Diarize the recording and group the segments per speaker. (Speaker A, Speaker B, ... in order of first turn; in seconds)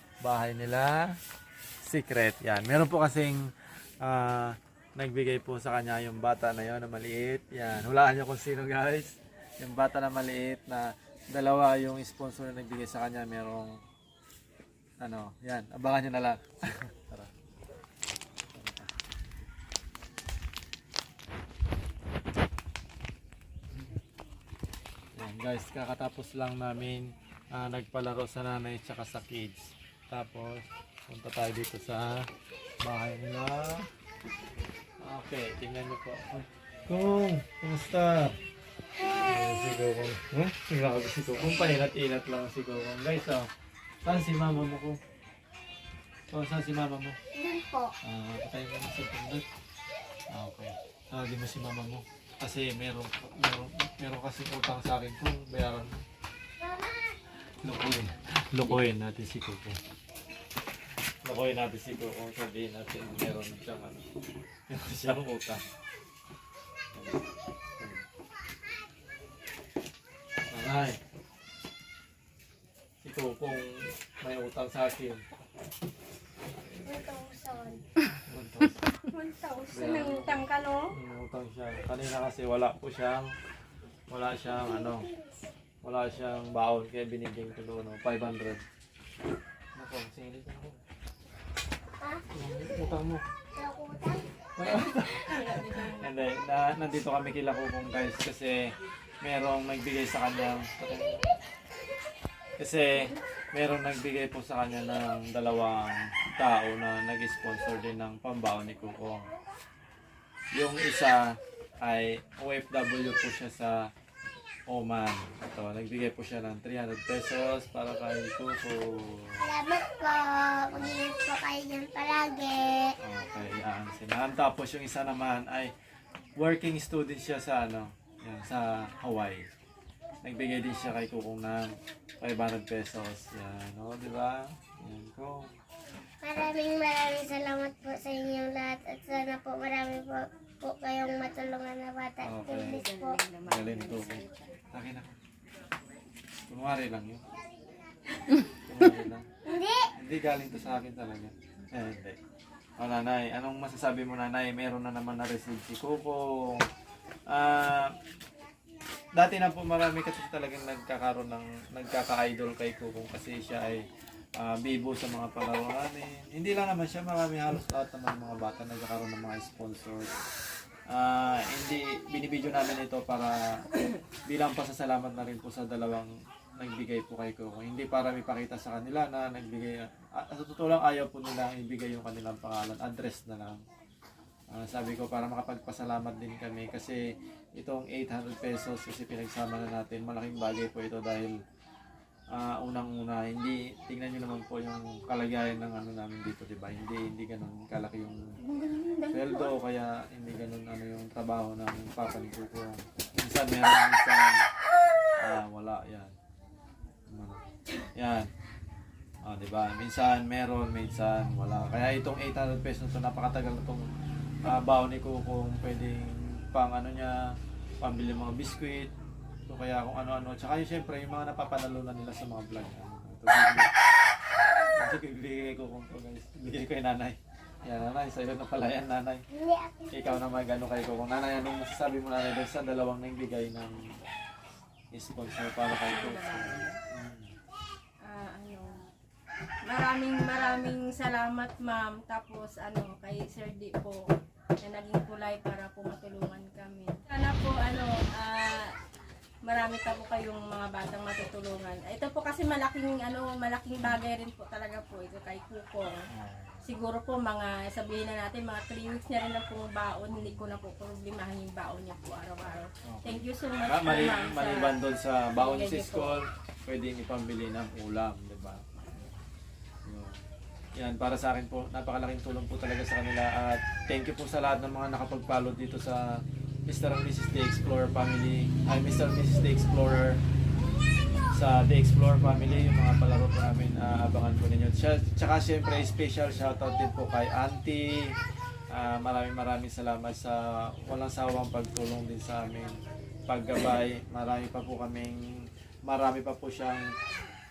Speaker A: 0.2-1.2, 1.8-13.8, 15.0-17.3, 18.5-18.9, 25.1-32.3, 32.8-33.9, 35.0-38.4, 39.2-43.5, 44.0-45.0, 46.3-47.2, 48.0-49.4, 50.3-56.0, 57.6-59.8, 61.2-64.1, 64.7-65.6, 70.5-71.0, 73.0-75.2, 78.3-78.9, 79.7-83.3, 84.1-85.1, 85.8-88.6, 89.8-90.8, 92.3-93.2, 94.6-98.7, 99.2-101.2, 102.6-109.3, 110.5-111.2, 111.8-113.8, 114.7-119.5, 120.7-121.0, 123.0-125.7, 126.4-129.5, 130.2-135.5, 142.2-142.8, 143.5-145.2, 146.5-147.2, 148.6-149.3, 150.0-152.2, 152.8-156.7, 157.3-157.9, 159.2-163.8, 164.4-170.1, 170.9-173.7, 174.3-183.6, 184.5-187.0, 187.6-191.3, 192.3-198.3, 199.1-204.4, 205.2-206.2, 207.1-207.4, 207.9-208.3, 209.2-213.9, 214.4-218.9, 219.5-223.7, 224.8-229.2, 229.9-233.8, 234.9-237.3, 256.1-256.7, 260.2-260.5, 262.9-269.1, 269.9-270.2, 270.8-280.2, 281.3-288.1, 288.7-295.2, 295.9-296.9
Speaker B: 47.3-47.9, 56.6-56.9, 76.8-77.8, 92.0-92.3, 93.5-94.3, 119.4-123.0, 136.2-143.2, 149.4-149.9, 229.3-230.1
Speaker C: 78.9-80.9, 95.0-96.1, 142.7-144.4, 198.4-199.5, 235.7-236.8, 238.0-238.8, 239.7-248.8, 249.4-256.0, 256.6-264.8, 265.4-266.2